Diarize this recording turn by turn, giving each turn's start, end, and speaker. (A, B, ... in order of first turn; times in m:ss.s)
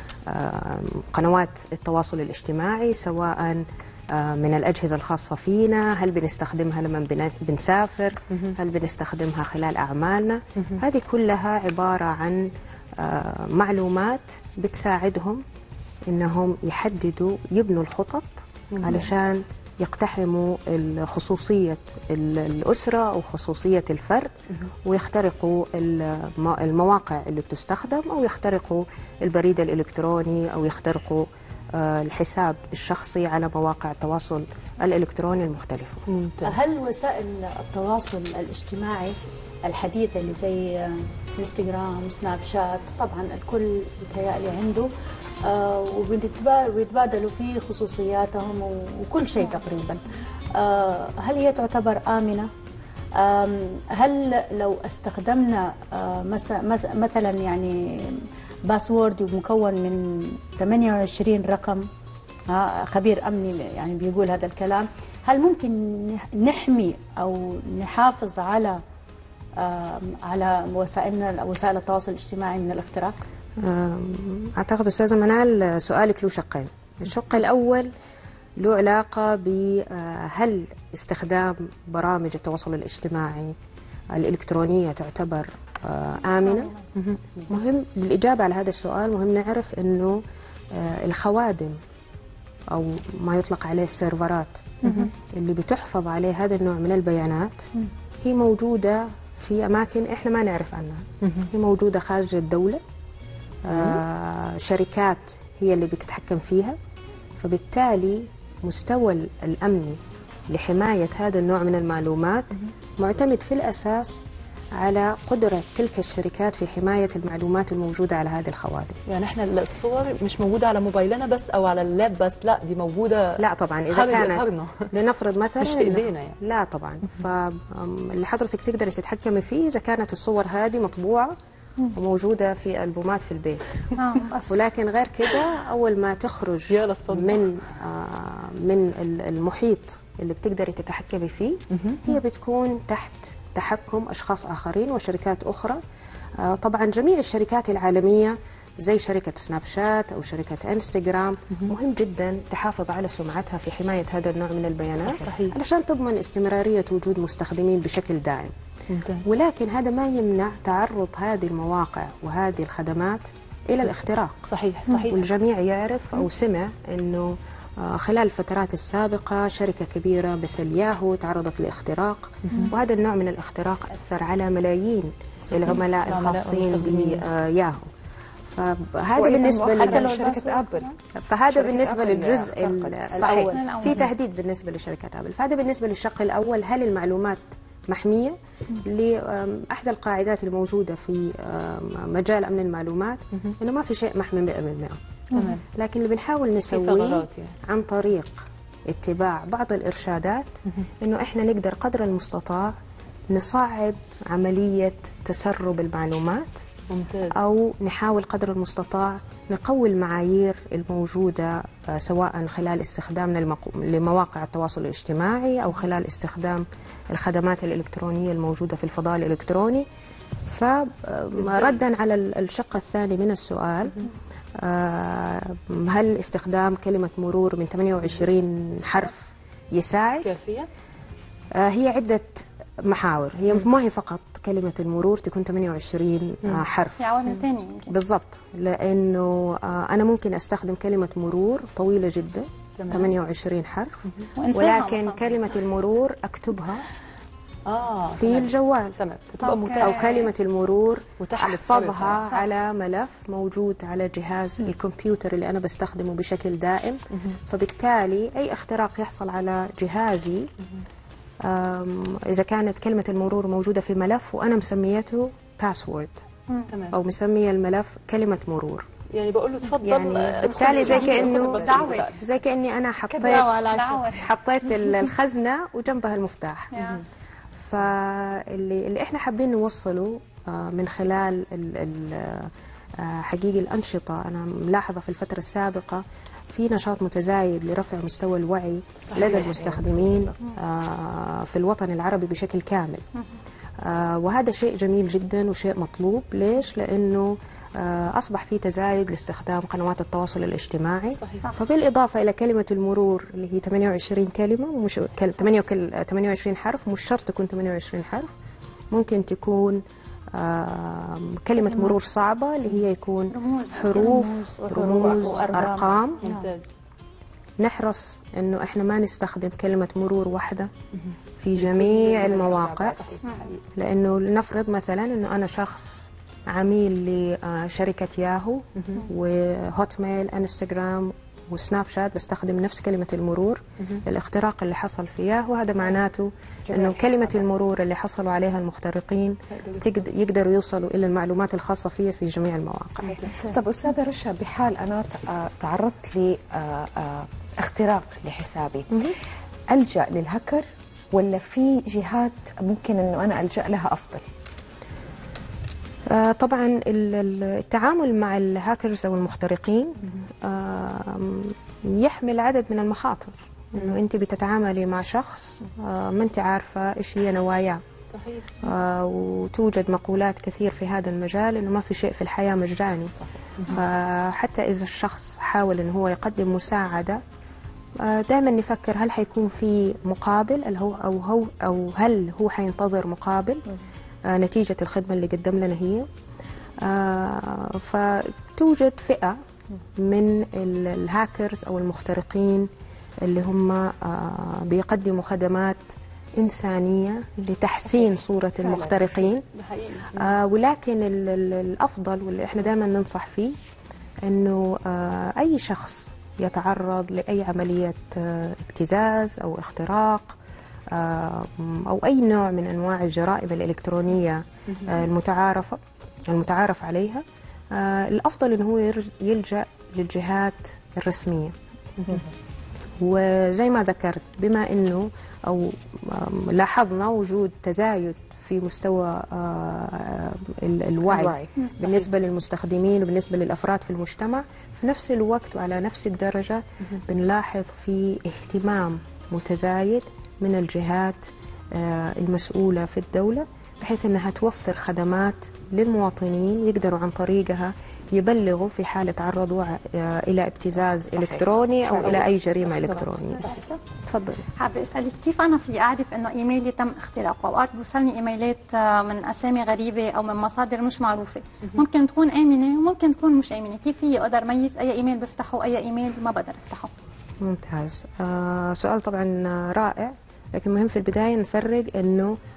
0:00.3-0:12.5 A
0:13.0-0:15.4 A
0:16.1-0:24.3 A
0:18.7-0:19.1 B
0:24.8-0:36.0 A
0:36.1-0:36.6 B
0:36.4-0:44.9 C
0:45.4-0:50.0 C
0:50.6-0:52.5 C
0:53.2-1:01.9 C
1:02.5-1:08.8 C
1:09.6-1:13.2 C
1:13.6-1:17.9 A
1:18.6-1:23.5 A
1:24.1-1:26.7 A
1:26.4-1:26.8 D
1:27.0-1:27.5 B
1:27.5-1:30.2 A
1:30.7-1:31.8 A
1:32.7-1:37.6 A
1:38.2-1:42.8 A
1:43.7-1:46.8 A
1:43.7-1:44.0 B
1:47.4-1:50.0 A
1:50.5-1:59.0 A
1:59.1-2:03.4 B
2:03.4-2:11.3 A
2:03.9-2:04.8 B
2:05.6-2:06.4 B
2:11.9-2:13.8 A
2:14.0-2:14.7 D
2:14.5-2:25.8 A
2:16.7-2:17.4 B
2:21.7-2:22.2 B
2:26.4-2:38.5 A
2:35.0-2:35.5 B
2:38.9-2:39.2 B
2:39.2-2:44.5 A
2:44.5-2:45.2 B
2:45.0-2:57.9 A
2:55.5-2:57.2 B
2:58.5-3:00.3 A
2:59.1-3:01.0 E
3:01.2-3:15.0 A
3:01.5-3:03.0 E
3:03.1-3:03.5 C
3:03.4-3:04.0 D
3:15.3-3:15.6 B
3:15.7-3:20.5 A
3:16.7-3:17.5 B
3:21.0-3:22.7 A
3:23.3-3:26.6 A
3:26.9-3:27.4 B
3:27.3-3:39.8 A
3:40.5-3:44.0 A
3:41.4-3:41.8 B
3:44.6-3:50.3 A
3:50.2-3:50.7 B
3:51.5-3:57.1 A
3:57.0-3:57.9 D
3:57.9-4:04.0 A
4:02.8-4:03.1 B
4:04.4-4:05.2 D
4:04.5-4:06.8 A
4:07.7-4:10.3 B
4:08.1-4:09.0 A
4:09.4-4:10.2 D
4:09.8-4:20.5 A
4:11.2-4:12.2 B
4:21.4-4:26.1 A
4:26.7-4:27.0 B
4:26.9-4:28.8 A
4:29.1-4:32.2 B
4:29.8-4:36.8 A
4:30.4-4:32.1 D
4:33.2-4:33.5 E
4:33.2-4:34.3 D
4:36.7-4:37.0 D
4:37.6-4:53.0 A
4:49.0-4:49.8 B
4:53.8-5:08.3 A
5:01.1-5:01.4 B
5:08.9-5:09.8 A
5:10.3-5:16.3 A
5:11.6-5:11.9 D
5:13.3-5:14.0 D
5:13.9-5:16.1 C
5:16.2-5:16.7 B
5:17.6-5:20.7 A
5:21.4-5:23.1 A
5:21.6-5:23.6 B
5:23.8-5:43.4 A
5:36.7-5:37.4 E
5:39.5-5:39.8 B
5:43.0-5:43.5 B
5:43.4-5:48.8 E
5:49.7-5:54.2 E
5:56.1-6:07.8 A
6:08.1-6:08.5 B
6:08.6-6:17.2 A
6:18.0-6:23.6 A
6:24.3-6:26.1 A
6:26.8-6:29.4 A
6:30.0-6:32.7 A
6:33.2-6:35.8 A
6:36.4-6:39.4 A
6:39.5-6:40.3 B
6:40.1-6:43.5 A
6:44.2-6:50.4 A
6:50.9-7:01.5 A
7:03.0-7:33.4 A
7:11.1-7:11.5 E
7:11.8-7:12.0 B
7:30.9-7:32.2 E
7:31.9-7:33.8 B
7:34.1-7:34.4 A
7:34.6-7:46.9 D
7:47.4-7:52.4 A